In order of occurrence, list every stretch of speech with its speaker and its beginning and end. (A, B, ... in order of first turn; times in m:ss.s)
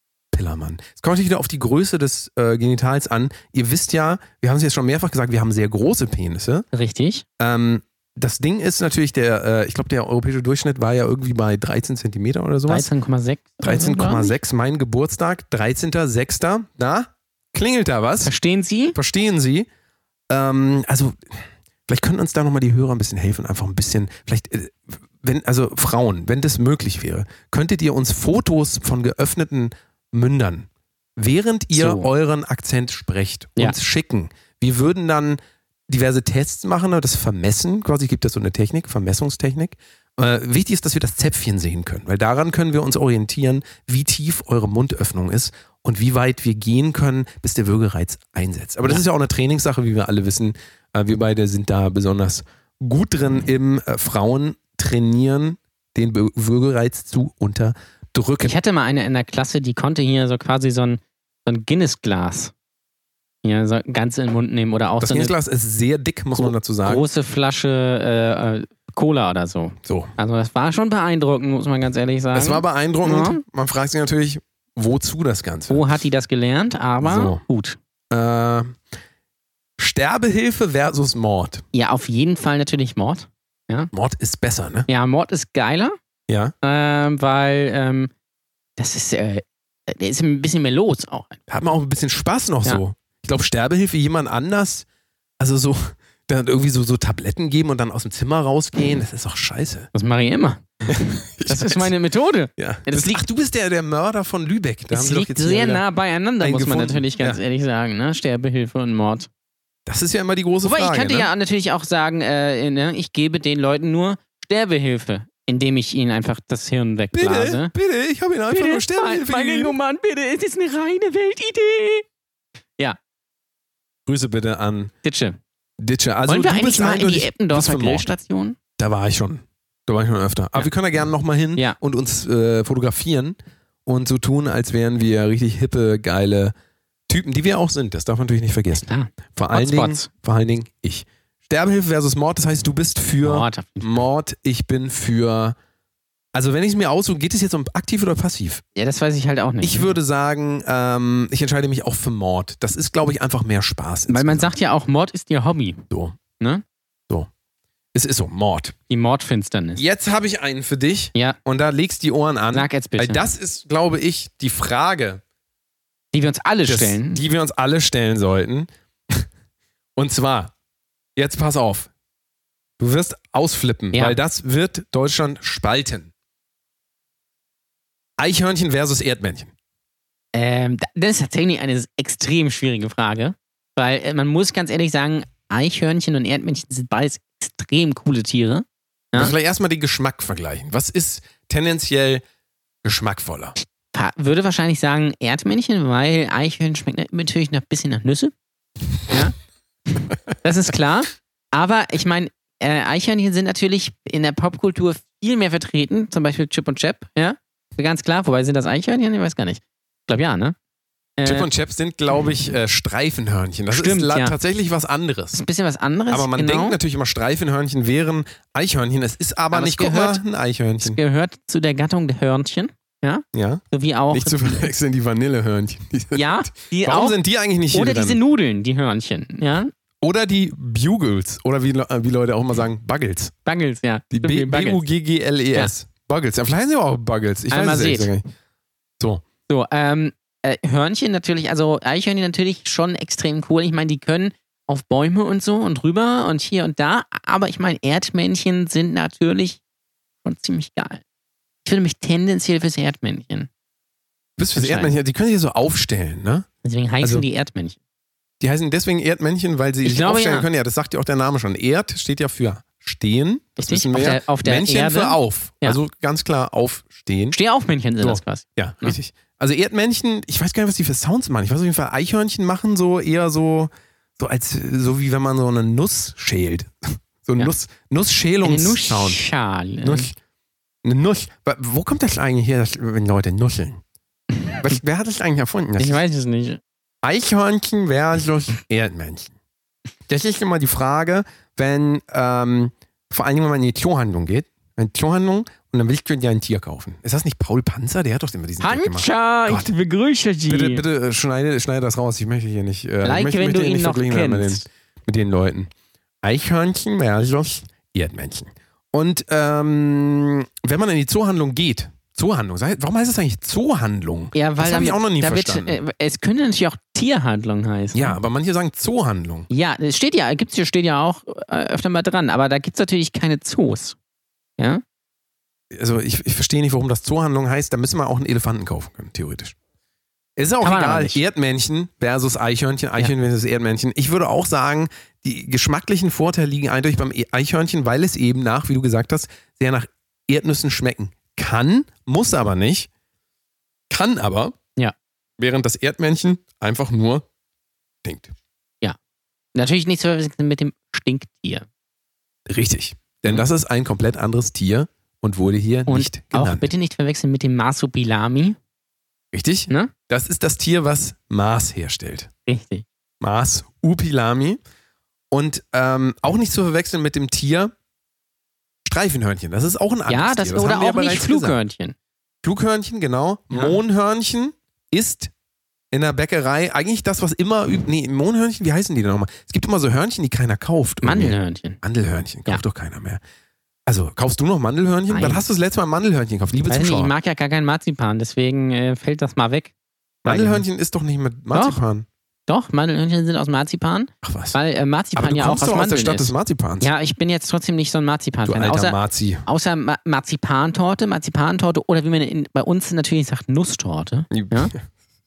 0:00.3-0:06.7 A
0:06.7-0:07.2 B
0:07.4-0:12.9 A
0:12.7-0:14.4 B
0:13.6-0:18.3 A
0:18.2-0:19.0 B
0:18.9-0:19.7 A
0:20.3-0:21.3 A
0:21.9-0:58.5 A
0:31.7-0:32.1 B
0:58.4-1:02.5 B
1:03.4-1:05.3 B
1:05.0-1:07.0 A
1:06.3-1:13.4 B
1:09.8-1:10.1 A
1:12.3-1:15.9 A
1:15.7-1:17.8 B
1:17.0-1:17.4 A
1:18.1-1:18.8 A
1:19.8-1:21.6 A
1:21.7-1:23.9 B
1:23.9-1:24.9 A
1:24.9-1:26.0 B
1:26.3-1:26.5 A
1:26.6-1:28.1 B
1:28.8-1:31.4 B
1:31.5-1:34.8 A
1:35.4-1:39.9 A
1:39.9-1:40.6 B
1:40.9-1:41.9 A
1:41.4-1:43.2 B
1:42.6-1:45.8 A
1:44.9-1:49.3 B
1:46.4-1:47.4 A
1:49.8-1:51.3 A
1:50.6-1:57.7 B
1:57.1-1:59.7 A
1:58.5-2:02.0 B
2:04.0-2:04.9 A
2:05.0-2:05.4 B
2:05.8-2:08.1 A
2:06.3-2:08.6 B
2:08.8-2:16.5 A
2:17.1-2:25.6 A
2:18.8-2:20.1 B
2:23.2-2:24.0 B
2:26.3-2:28.6 A
2:28.7-2:29.9 B
2:29.6-2:34.5 A
2:34.1-2:35.8 B
2:35.9-2:36.2 A
2:37.9-2:38.7 A
2:38.9-2:39.8 B
2:39.8-2:45.2 A
2:42.5-2:43.2 B
2:46.1-2:47.2 B
2:46.7-2:49.2 A
2:50.0-2:50.5 A
2:51.2-2:51.9 A
2:52.8-2:56.1 A
2:58.2-2:59.5 A
3:00.3-3:09.3 B
3:09.1-3:12.2 A
3:12.8-3:13.6 A
3:13.9-3:18.3 B
3:19.1-3:19.4 B
3:20.4-3:30.5 B
3:31.2-3:31.5 B
3:31.2-3:35.4 A
3:33.7-3:34.4 B
3:35.3-3:36.8 B
3:36.1-3:41.0 A
3:39.5-3:40.2 B
3:40.8-3:44.7 B
3:43.3-3:48.2 A
3:46.1-3:47.2 B
3:47.7-3:49.7 B
3:50.0-3:53.3 A
3:53.4-3:54.8 B
3:54.1-3:58.2 A
3:57.5-3:58.1 B
3:59.0-3:59.2 A
3:59.5-4:09.6 B
4:10.2-4:11.0 B
4:11.6-4:13.5 B
4:14.4-4:16.4 A
4:14.6-4:14.9 B
4:16.6-4:17.8 B
4:17.0-4:17.2 A
4:18.4-4:27.4 A
4:19.8-4:20.5 B
4:23.6-4:25.8 B
4:27.3-4:29.0 B
4:28.0-4:39.2 A
4:38.4-4:40.1 B
4:39.8-4:40.1 A
4:40.8-4:43.8 A
4:44.4-4:44.7 B
4:44.6-4:46.0 A
4:45.8-4:46.6 B
4:47.0-4:49.3 A
4:50.1-4:59.7 A
4:58.6-5:00.8 B
5:00.5-5:05.7 A
5:03.0-5:04.6 B
5:06.2-5:15.8 A
5:14.3-5:18.2 B
5:17.9-5:19.5 A
5:19.5-5:24.0 B
5:25.7-5:29.5 A
5:30.4-5:42.9 A
5:30.6-5:31.2 B
5:43.9-5:44.6 A
5:45.4-5:47.2 A
5:48.0-5:48.3 A
5:49.5-5:51.6 B
5:52.5-5:56.7 A
5:55.9-5:58.6 B
5:59.3-6:02.3 A
6:02.5-6:02.8 B
6:03.2-6:04.6 A
6:05.3-6:07.7 A
6:08.8-6:11.6 A
6:10.1-6:11.9 B
6:12.4-6:15.3 A
6:13.5-6:13.8 B
6:15.9-6:23.2 A
6:21.0-6:21.8 B
6:23.8-6:27.1 A
6:25.1-6:25.4 B
6:26.7-6:29.7 B
6:30.2-6:32.0 A
6:30.2-6:30.6 B
6:31.5-6:31.8 B
6:32.5-6:44.7 B
6:34.2-6:34.6 A
6:35.2-6:36.9 A
6:38.4-6:39.4 A
6:44.3-6:44.8 A